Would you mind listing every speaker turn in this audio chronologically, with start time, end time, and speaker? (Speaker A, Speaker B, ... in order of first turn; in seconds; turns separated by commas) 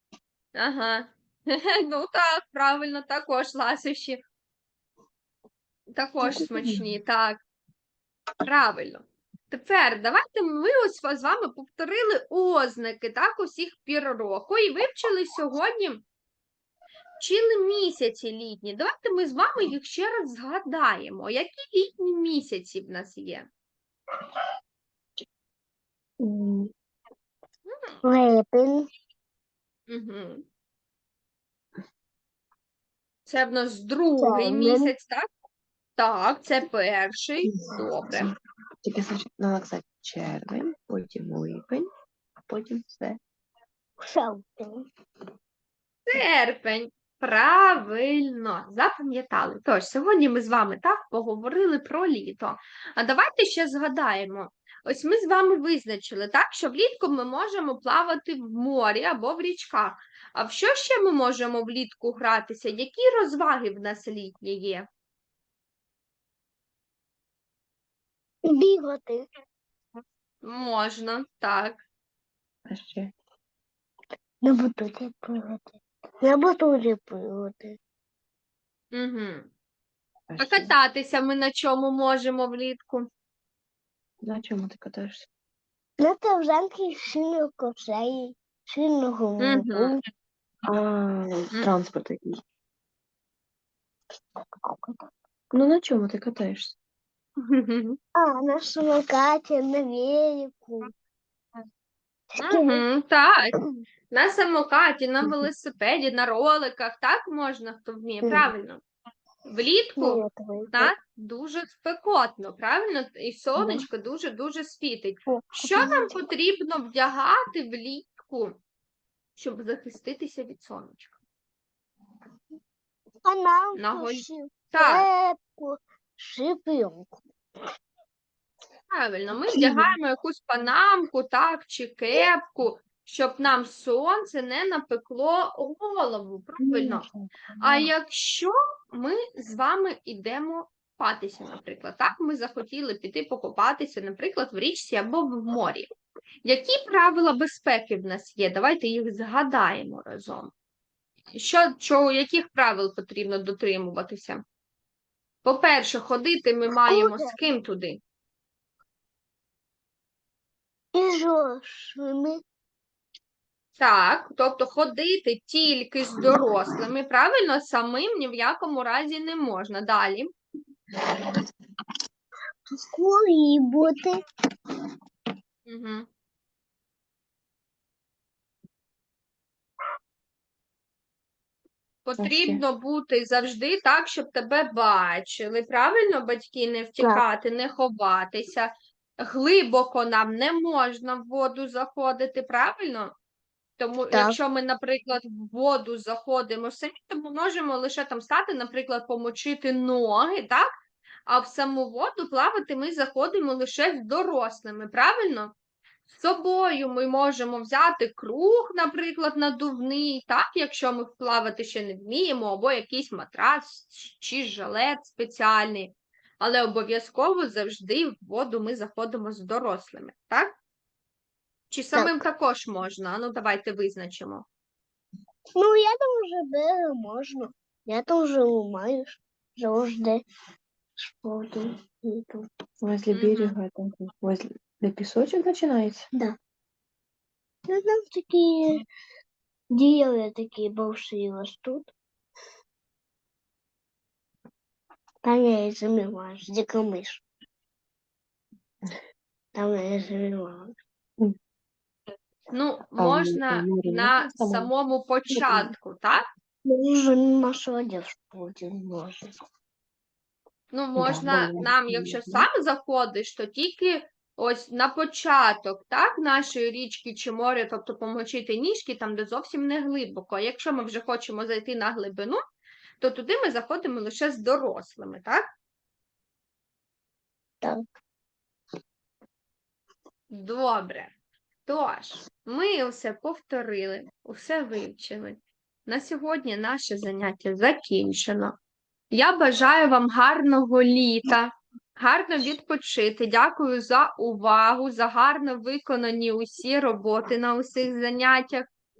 Speaker A: 0.6-4.2, Speaker A: 5.9-7.4, Speaker A: 8.4-16.0, Speaker A: 17.2-23.5, Speaker B: 26.2-26.7, Speaker A: 27.6-28.0, Speaker C: 28.0-28.9, Speaker A: 29.9-30.4, Speaker A: 33.2-35.3, Speaker C: 34.2-34.9, Speaker A: 36.0-38.3, Speaker B: 37.4-38.3, Speaker B: 38.8-41.9, Speaker B: 42.5-43.2, Speaker C: 44.0-44.8, Speaker A: 46.1-64.9, Speaker C: 68.5-69.3, Speaker A: 70.4-71.8, Speaker B: 72.7-73.1, Speaker C: 74.4-77.8, Speaker A: 78.9-79.5, Speaker B: 80.3-80.7, Speaker A: 80.4-83.1, Speaker B: 84.2-85.3, Speaker C: 86.0-90.0, Speaker A: 89.4-89.9, Speaker B: 90.7-92.4, Speaker C: 94.6-95.0, Speaker B: 95.5-96.8, Speaker A: 97.4-98.0, Speaker C: 98.2-100.9, Speaker C: 102.3-102.8, Speaker A: 102.4-103.5, Speaker A: 104.1-108.8, Speaker C: 108.2-108.5, Speaker A: 109.5-110.2, Speaker C: 110.0-110.9, Speaker A: 110.7-118.6, Speaker C: 113.6-113.8, Speaker C: 115.3-116.2, Speaker A: 119.3-121.2, Speaker C: 123.2-127.2, Speaker A: 123.8-125.1, Speaker A: 128.9-137.0, Speaker B: 136.6-137.9, Speaker A: 137.6-145.9, Speaker A: 146.4-150.5, Speaker A: 151.3-154.4, Speaker A: 155.4-158.0, Speaker C: 156.9-157.3, Speaker C: 160.9-162.4, Speaker A: 163.8-170.3, Speaker C: 172.7-174.2, Speaker A: 175.7-176.1, Speaker A: 182.0-193.1, Speaker B: 182.2-182.6, Speaker C: 187.0-187.2, Speaker A: 193.8-200.7, Speaker C: 194.1-194.4, Speaker A: 201.3-205.5, Speaker A: 206.1-220.6, Speaker A: 221.7-224.4, Speaker C: 221.9-222.2, Speaker C: 225.6-230.2, Speaker C: 231.0-232.4, Speaker B: 232.8-236.1, Speaker A: 233.1-233.5, Speaker C: 237.7-238.8, Speaker C: 239.7-241.9, Speaker C: 245.2-247.2, Speaker C: 249.5-250.7, Speaker A: 252.5-256.2, Speaker B: 253.0-254.7, Speaker B: 255.3-255.7, Speaker C: 256.6-259.3, Speaker A: 260.7-272.4, Speaker B: 261.0-262.4, Speaker A: 273.0-275.4, Speaker A: 280.3-281.1, Speaker A: 281.6-288.6, Speaker A: 289.1-298.6